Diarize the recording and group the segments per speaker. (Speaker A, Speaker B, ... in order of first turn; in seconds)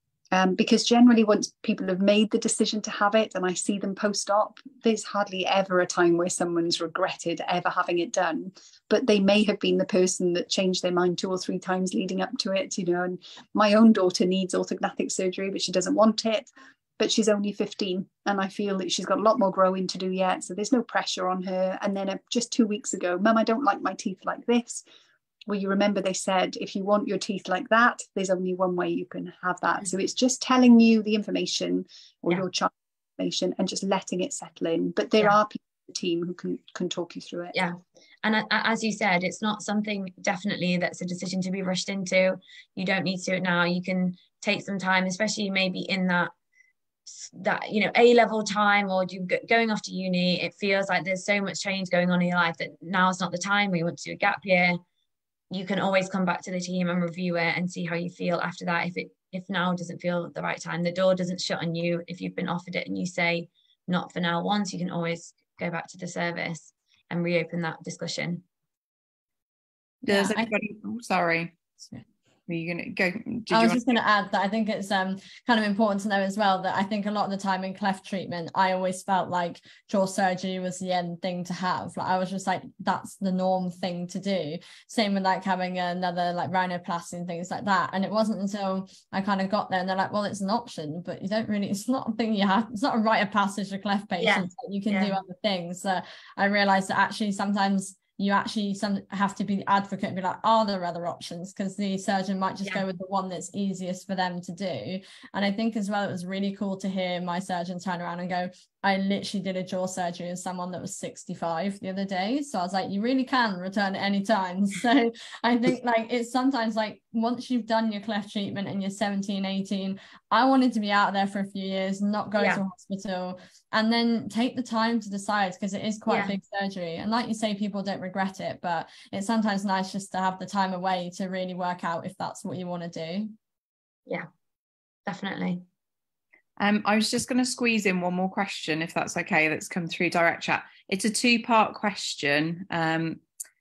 Speaker A: 0.3-24.8, 25.5-37.5
Speaker B: 37.5-46.3, 47.1-54.8, 55.5-68.4, 94.2-95.2, 122.4-122.6, 126.1-126.3, 135.1-135.6
Speaker C: 70.0-71.6, 72.5-73.8, 136.6-143.2
Speaker D: 70.1-70.5, 73.5-133.3